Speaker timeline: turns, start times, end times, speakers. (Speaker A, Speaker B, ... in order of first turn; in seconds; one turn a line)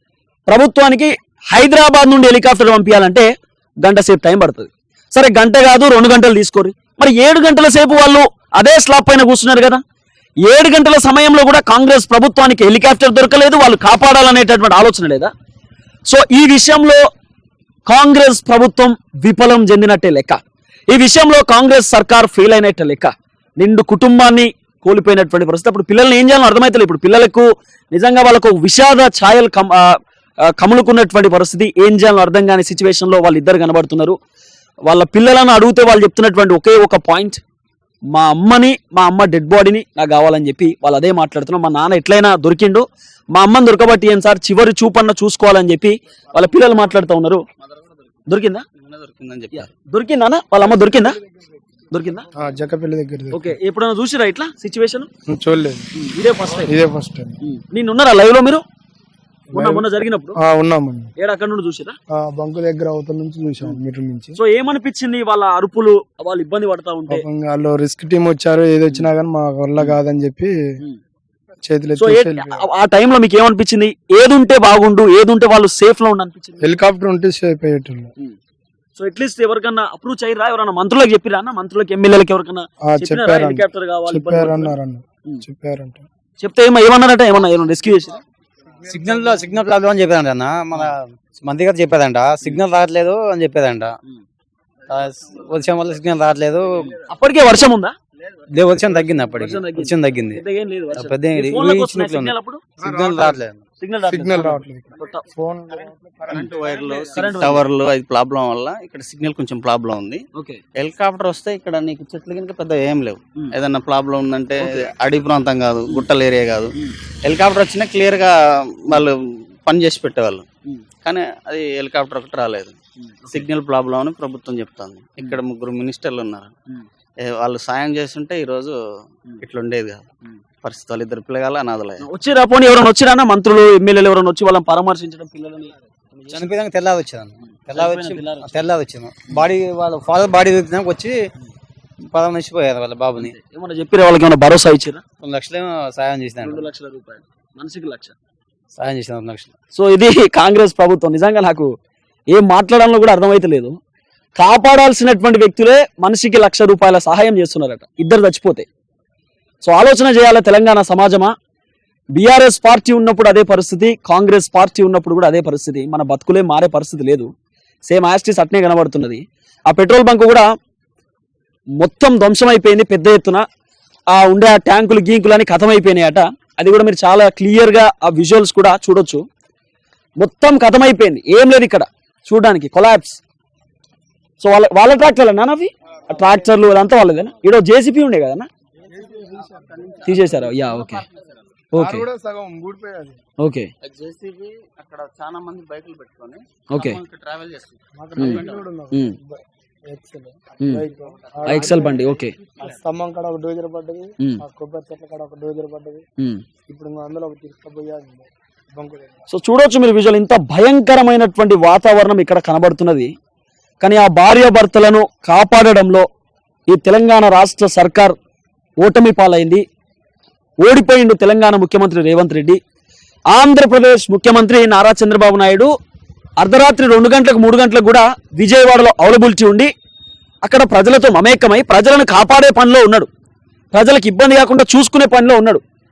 Speaker A: 0.5-3.3
Speaker A: 3.8-9.8
Speaker A: 10.4-15.3
Speaker A: 16.1-17.1
Speaker A: 17.9-30.0
Speaker A: 30.5-34.2
Speaker A: 34.9-37.4
Speaker A: 38.1-47.4
Speaker A: 48.3-48.6
Speaker B: 48.8-49.7
Speaker A: 49.5-51.2
Speaker A: 51.9-52.2
Speaker C: 52.3-53.5
Speaker A: 53.3-55.1
Speaker C: 55.3-55.9
Speaker A: 55.9-56.7
Speaker C: 56.6-57.4
Speaker A: 57.4-58.6
Speaker C: 59.5-61.1
Speaker A: 59.5-60.4
Speaker A: 61.2-62.0
Speaker C: 62.1-64.4
Speaker A: 64.4-67.2
Speaker C: 67.1-70.6
Speaker C: 71.6-72.6
Speaker A: 72.0-76.7
Speaker C: 76.6-78.1
Speaker A: 79.0-85.4
Speaker C: 82.8-86.1
Speaker A: 86.4-88.2
Speaker D: 88.8-94.0
Speaker D: 94.9-97.0
Speaker A: 97.1-98.0
Speaker D: 98.5-100.4
Speaker A: 99.4-102.6
Speaker D: 100.9-103.6
Speaker C: 102.8-103.2
Speaker A: 103.8-105.2
Speaker C: 104.1-107.4
Speaker B: 106.3-110.2
Speaker A: 107.1-107.7
Speaker A: 110.3-110.6
Speaker B: 110.8-116.7
Speaker A: 114.6-114.9
Speaker B: 117.2-118.3
Speaker B: 118.9-120.5
Speaker B: 121.0-122.8
Speaker A: 123.0-123.4
Speaker B: 123.3-126.5
Speaker B: 127.2-128.8
Speaker B: 129.4-130.1
Speaker B: 130.6-132.0
Speaker A: 132.0-136.4
Speaker D: 136.3-141.2
Speaker A: 137.4-138.6
Speaker D: 142.1-143.3
Speaker A: 143.2-145.0
Speaker D: 145.2-146.7
Speaker A: 146.4-148.1
Speaker D: 148.8-149.5
Speaker A: 149.7-151.7
Speaker A: 152.3-153.8
Speaker A: 154.4-158.7
Speaker A: 159.6-161.3
Speaker A: 162.2-167.3
Speaker A: 167.9-170.4
Speaker A: 171.8-173.4
Speaker A: 174.1-179.2
Speaker A: 180.2-183.2
Speaker A: 184.4-188.5
Speaker C: 188.9-190.1
Speaker B: 189.0-191.3
Speaker A: 190.0-191.0
Speaker A: 191.7-192.1
Speaker C: 191.7-193.2
Speaker A: 193.4-193.7
Speaker B: 193.8-198.7
Speaker A: 196.7-197.0
Speaker C: 197.9-206.0
Speaker A: 198.2-199.2
Speaker A: 201.4-202.3
Speaker C: 206.7-209.2
Speaker A: 209.3-213.1
Speaker A: 213.8-216.1
Speaker A: 216.7-218.2
Speaker A: 218.8-219.6
Speaker A: 220.6-222.6
Speaker A: 223.3-225.7
Speaker A: 226.4-229.7
Speaker A: 230.4-233.1
Speaker A: 233.7-235.6